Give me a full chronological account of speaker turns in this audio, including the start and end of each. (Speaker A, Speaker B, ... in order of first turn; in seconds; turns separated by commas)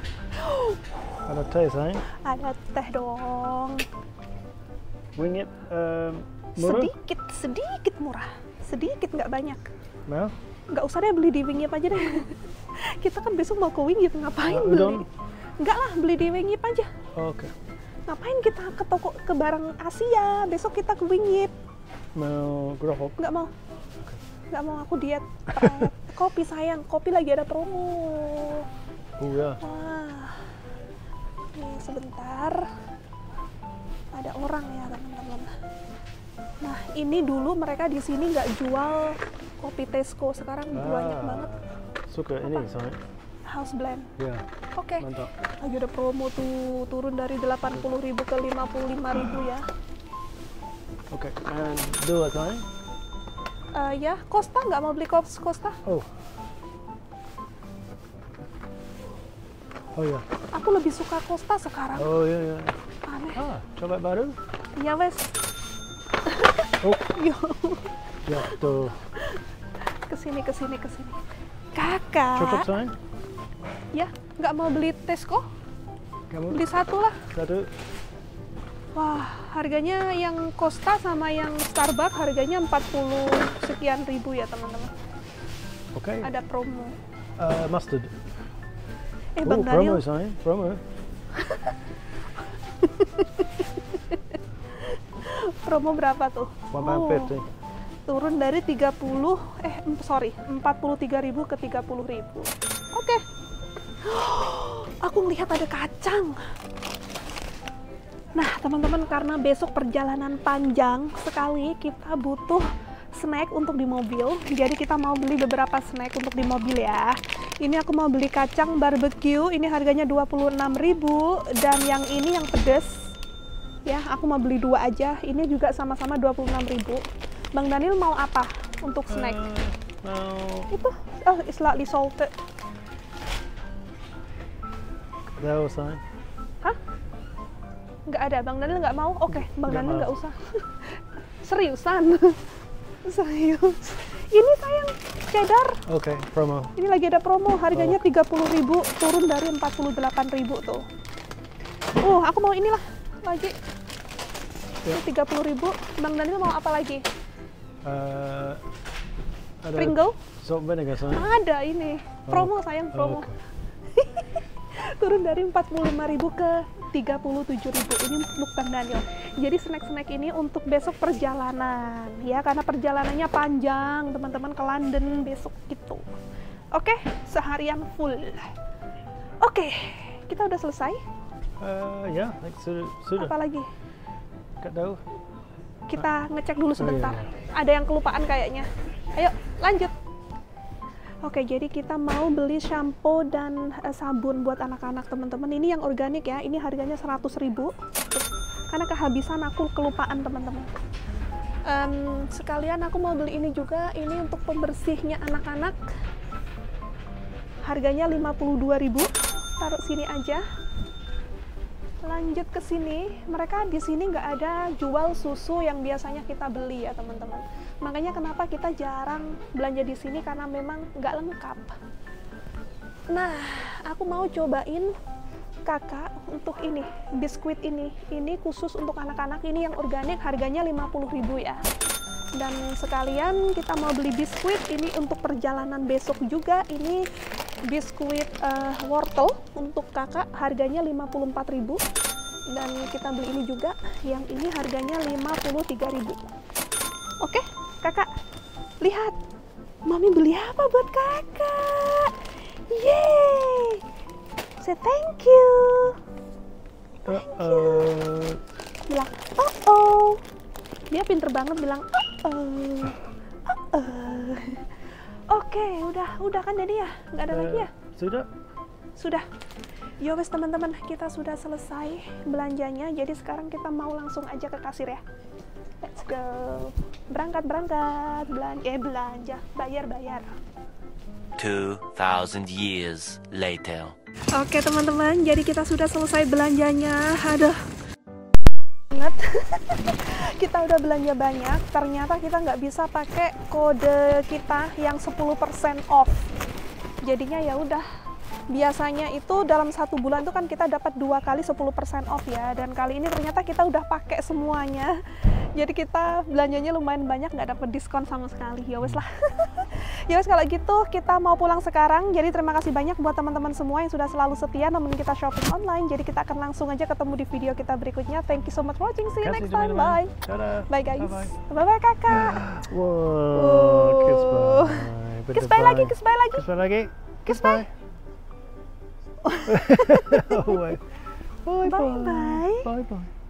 Speaker A: 0.4-1.2, Speaker B: 1.2-2.0, Speaker A: 2.1-3.9, Speaker B: 5.2-6.9, Speaker A: 6.6-9.7, Speaker B: 10.1-10.3, Speaker A: 10.7-15.1, Speaker B: 14.5-15.1, Speaker A: 15.6-16.9, Speaker B: 17.1-17.5, Speaker A: 18.1-21.5, Speaker B: 22.1-23.2, Speaker A: 23.2-23.5, Speaker A: 24.5-28.6, Speaker B: 25.5-25.9, Speaker B: 29.2-29.6, Speaker A: 29.6-30.5, Speaker A: 31.6-32.7, Speaker A: 34.1-35.5, Speaker A: 36.6-41.5, Speaker B: 40.7-43.0, Speaker A: 43.5-44.1, Speaker B: 44.2-44.4, Speaker A: 44.8-49.6, Speaker B: 45.0-45.3, Speaker B: 51.1-52.6, Speaker A: 53.7-55.8, Speaker B: 59.9-60.2, Speaker A: 60.5-62.1, Speaker B: 61.9-62.8, Speaker A: 63.1-63.5, Speaker B: 63.3-64.4, Speaker A: 64.8-65.4, Speaker A: 66.2-69.4, Speaker B: 68.2-69.0, Speaker A: 70.1-71.2, Speaker A: 71.7-72.7, Speaker B: 72.4-72.9, Speaker A: 73.9-75.4, Speaker B: 76.3-76.6, Speaker A: 76.5-77.2, Speaker B: 77.3-77.7, Speaker A: 78.9-84.9, Speaker B: 85.9-86.3, Speaker A: 86.2-87.0, Speaker B: 87.4-88.2, Speaker A: 89.4-90.0, Speaker B: 89.4-90.8, Speaker A: 91.3-91.8, Speaker A: 92.8-97.4, Speaker B: 96.7-97.4, Speaker A: 98.1-103.2, Speaker A: 104.0-106.4, Speaker A: 108.4-123.1, Speaker A: 123.9-127.0, Speaker A: 127.6-129.4, Speaker B: 129.1-130.7, Speaker A: 130.7-132.3, Speaker B: 135.4-136.0, Speaker A: 138.1-142.4, Speaker B: 139.3-140.1, Speaker A: 143.1-145.8, Speaker B: 145.9-146.7, Speaker A: 146.8-150.8, Speaker B: 147.7-148.0, Speaker A: 152.0-153.6, Speaker A: 154.9-157.0, Speaker B: 157.8-158.6, Speaker B: 159.6-161.3, Speaker A: 159.7-160.2, Speaker A: 161.1-163.3, Speaker B: 162.3-163.4, Speaker A: 163.9-176.0, Speaker A: 176.7-178.5, Speaker A: 179.4-181.0, Speaker B: 181.6-183.3, Speaker A: 183.2-183.7, Speaker B: 184.6-185.0, Speaker A: 185.9-189.9, Speaker B: 186.8-187.3, Speaker A: 191.2-200.8, Speaker A: 201.7-205.8, Speaker A: 207.7-210.4, Speaker A: 212.0-221.8, Speaker A: 223.1-224.9, Speaker A: 225.7-231.6, Speaker A: 232.4-237.1, Speaker A: 237.7-241.8, Speaker A: 242.5-246.2, Speaker A: 247.2-248.1, Speaker A: 248.8-249.2, Speaker A: 249.9-253.8, Speaker A: 254.6-256.0, Speaker B: 257.0-258.4, Speaker A: 257.1-258.0, Speaker A: 258.9-260.2, Speaker A: 260.9-264.7, Speaker A: 265.3-267.7, Speaker B: 267.3-268.3, Speaker A: 268.9-269.2, Speaker A: 270.0-275.0, Speaker A: 275.8-280.4, Speaker C: 281.4-283.9, Speaker A: 284.3-287.6, Speaker A: 288.9-296.3, Speaker A: 297.1-297.9, Speaker A: 298.5-305.0, Speaker A: 305.6-320.1, Speaker B: 319.1-321.4, Speaker A: 320.7-322.4, Speaker B: 322.1-327.7, Speaker A: 323.3-326.5, Speaker A: 327.2-327.6, Speaker A: 329.2-330.6, Speaker B: 329.4-330.9, Speaker B: 331.4-333.1, Speaker A: 331.6-332.7